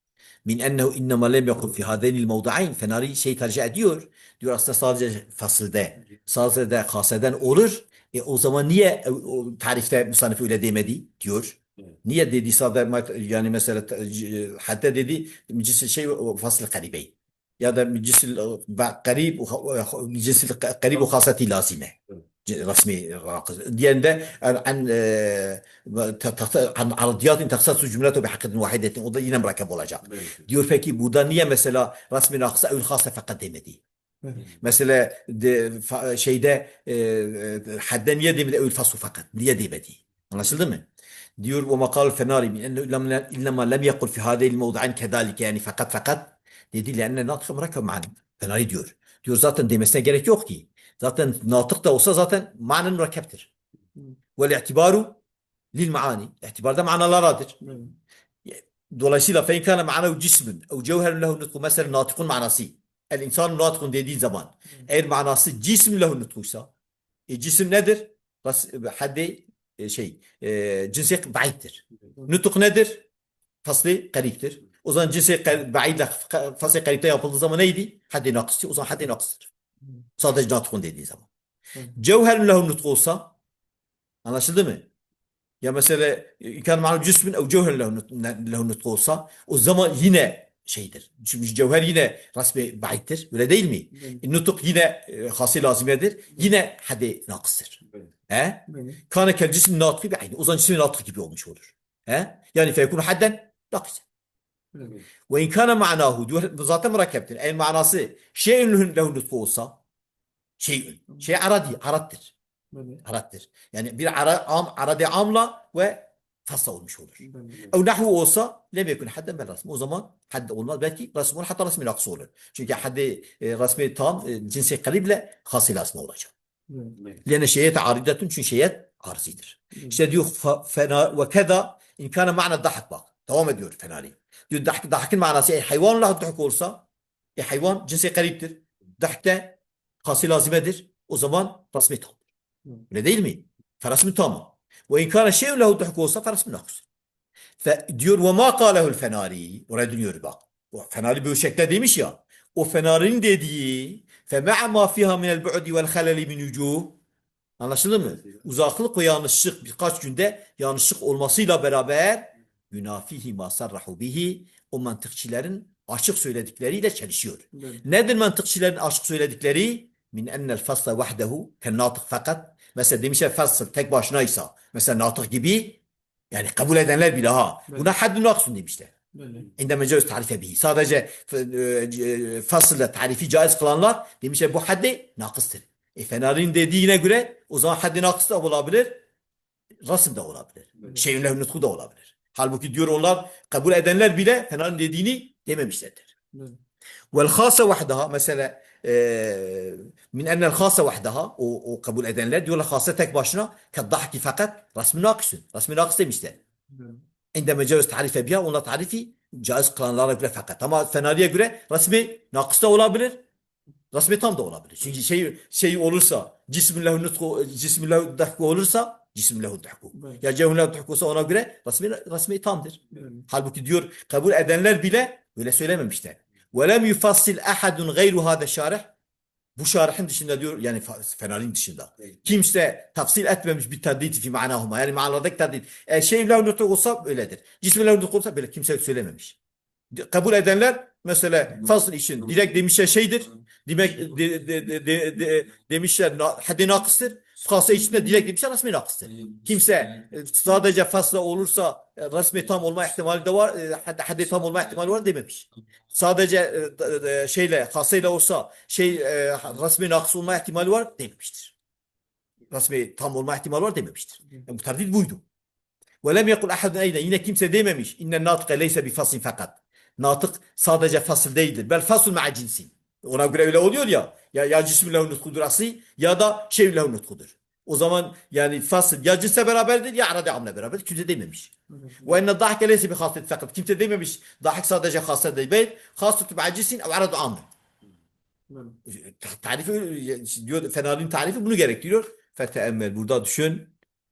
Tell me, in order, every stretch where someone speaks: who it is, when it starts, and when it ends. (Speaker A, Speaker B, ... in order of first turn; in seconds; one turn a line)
Speaker A: 0.4-33.8
Speaker B: 34.2-34.5
Speaker A: 34.4-40.9
Speaker A: 41.4-53.5
Speaker A: 54.4-55.2
Speaker A: 55.7-57.5
Speaker B: 57.6-58.0
Speaker A: 58.5-66.7
Speaker A: 67.3-73.0
Speaker A: 73.6-79.5
Speaker A: 80.2-81.3
Speaker A: 81.9-83.3
Speaker A: 84.2-84.9
Speaker A: 85.6-104.0
Speaker B: 93.9-94.2
Speaker B: 98.7-99.0
Speaker B: 104.7-105.0
Speaker A: 105.3-109.8
Speaker A: 110.6-112.3
Speaker B: 112.7-113.0
Speaker A: 113.0-126.3
Speaker B: 117.2-117.7
Speaker B: 126.7-127.0
Speaker A: 127.2-136.8
Speaker B: 129.7-130.0
Speaker A: 137.4-142.2
Speaker A: 142.9-146.8
Speaker A: 147.6-157.0
Speaker A: 157.6-178.9
Speaker B: 167.5-167.8
Speaker B: 179.1-179.5
Speaker A: 179.6-189.0
Speaker A: 189.8-196.1
Speaker B: 196.3-196.6
Speaker A: 197.1-206.4
Speaker B: 206.7-207.0
Speaker A: 207.3-213.2
Speaker A: 213.9-228.9
Speaker B: 219.9-220.2
Speaker B: 222.9-223.3
Speaker A: 229.6-239.4
Speaker A: 239.9-261.5
Speaker A: 262.5-265.2
Speaker A: 266.0-281.5
Speaker B: 281.7-282.2
Speaker A: 282.0-287.5
Speaker B: 288.5-288.8
Speaker A: 288.9-293.7